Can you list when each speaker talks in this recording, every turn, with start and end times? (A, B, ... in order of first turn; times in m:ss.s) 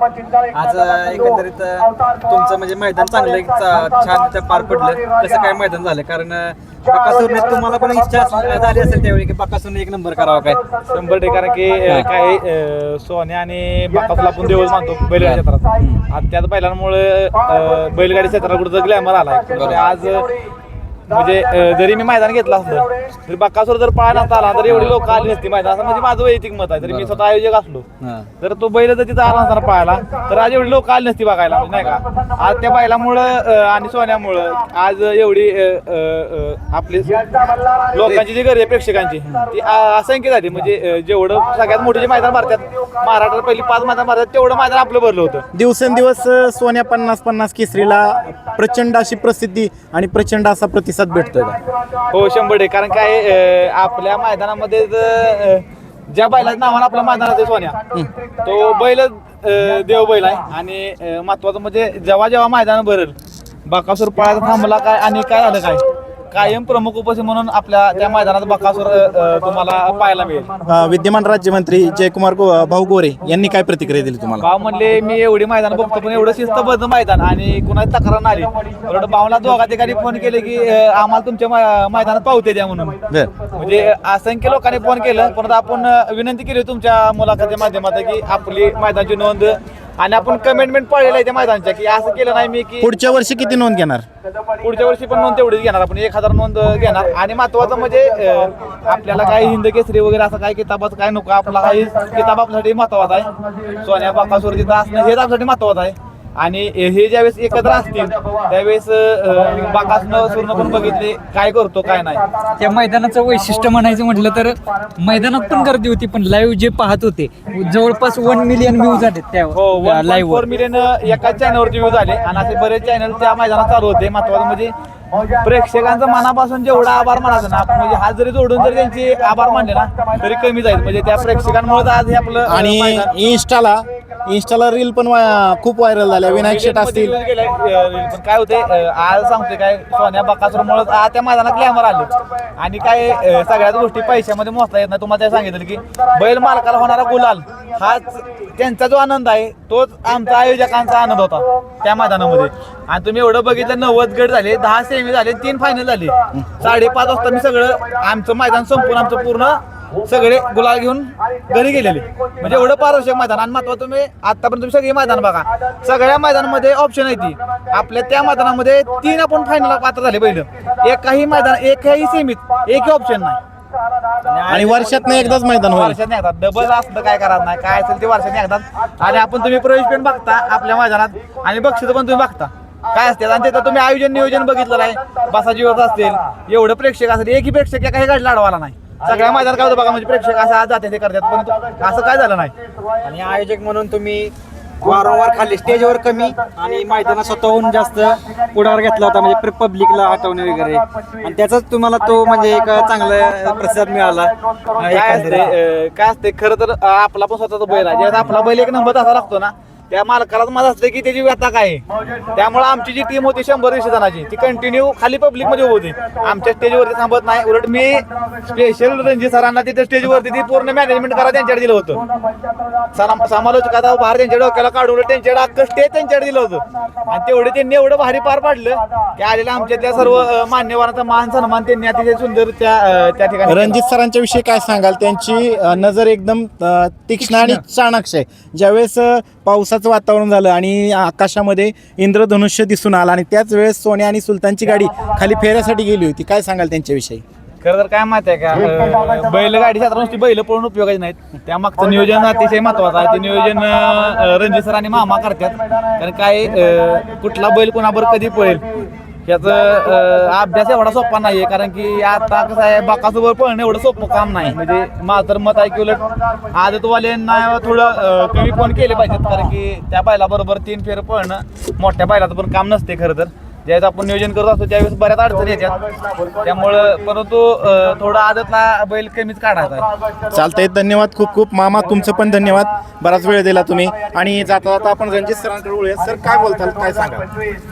0:00.5-0:10.6 A
0:10.9-0:20.3 B
0:15.2-0:16.0 A
0:19.6-0:19.8 A
0:21.1-0:27.8 B
0:24.7-0:24.9 A
0:26.8-0:27.2 A
0:28.0-0:28.3 A
0:28.4-0:37.2 B
0:37.9-0:45.4 B
0:45.5-0:51.6 C
0:52.1-0:57.8 B
0:58.4-1:03.1 B
1:03.6-1:10.5 B
1:10.6-1:14.4 C
1:14.4-1:23.0 B
1:23.5-1:32.9 B
1:32.8-1:34.0 C
1:34.6-1:52.2 B
1:52.6-2:00.4 D
1:59.5-2:04.7 B
2:05.4-2:13.1 B
2:12.4-2:17.1 C
2:16.4-2:53.4 B
2:54.4-2:55.3 A
2:54.5-2:56.0 C
2:55.7-3:12.5 B
3:13.0-3:25.5 A
3:24.8-3:42.0 B
3:42.9-3:53.8 B
3:53.4-4:07.2 C
4:07.6-4:18.6 B
4:19.2-4:35.8 B
4:36.4-4:39.9 B
4:40.3-4:47.2 C